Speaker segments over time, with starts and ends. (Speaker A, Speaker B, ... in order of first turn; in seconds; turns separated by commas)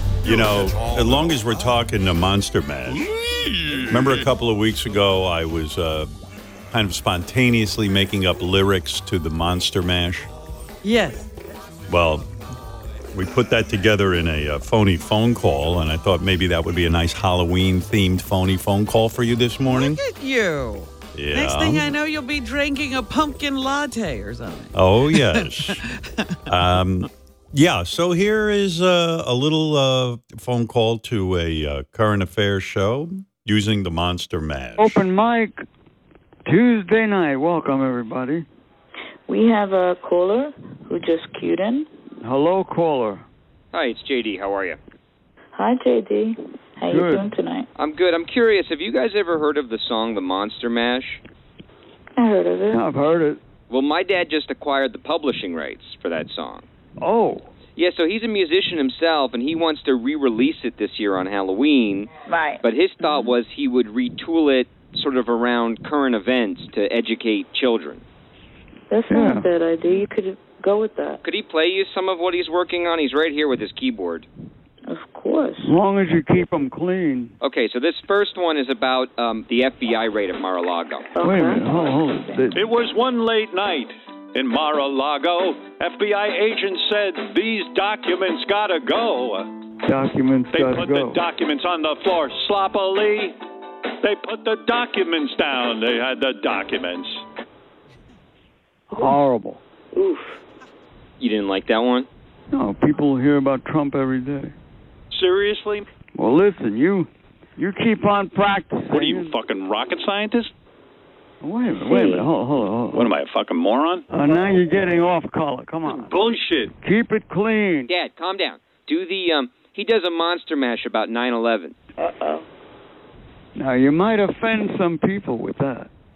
Speaker A: 0.2-3.1, Speaker A: 3.7-6.1, Speaker A: 6.7-10.3, Speaker B: 10.8-11.3, Speaker A: 11.9-12.3, Speaker A: 13.1-20.0, Speaker B: 19.7-26.5, Speaker A: 21.1-21.9, Speaker A: 24.7-25.8, Speaker A: 26.5-35.0, Speaker C: 34.8-35.6, Speaker C: 36.5-38.5, Speaker D: 39.3-41.9, Speaker C: 42.2-43.2, Speaker E: 43.7-44.8, Speaker D: 45.6-47.7, Speaker C: 46.9-47.3, Speaker E: 47.8-51.2, Speaker D: 52.2-52.8, Speaker C: 52.7-53.4, Speaker E: 53.7-56.6, Speaker C: 57.0-57.5, Speaker E: 57.8-62.1, Speaker D: 62.3-63.3, Speaker E: 62.6-68.0, Speaker D: 68.9-71.2, Speaker C: 69.1-69.5, Speaker E: 71.2-74.3, Speaker D: 74.9-75.7, Speaker C: 75.6-77.3, Speaker E: 77.4-81.0, Speaker D: 81.2-82.5, Speaker C: 81.2-82.7, Speaker F: 82.5-89.6, Speaker C: 89.8-91.2, Speaker F: 90.5-93.4, Speaker F: 94.0-97.2, Speaker C: 99.0-99.6, Speaker D: 99.9-100.4, Speaker E: 101.2-102.1, Speaker C: 102.5-104.5, Speaker F: 105.1-105.8, Speaker C: 106.1-109.4, Speaker F: 109.0-110.5, Speaker C: 111.4-113.2, Speaker D: 111.8-112.3, Speaker F: 112.9-114.1, Speaker C: 114.1-116.1, Speaker D: 114.2-114.6, Speaker F: 116.1-116.7, Speaker C: 116.8-117.9, Speaker E: 117.9-121.7, Speaker D: 122.0-122.5, Speaker C: 123.6-125.9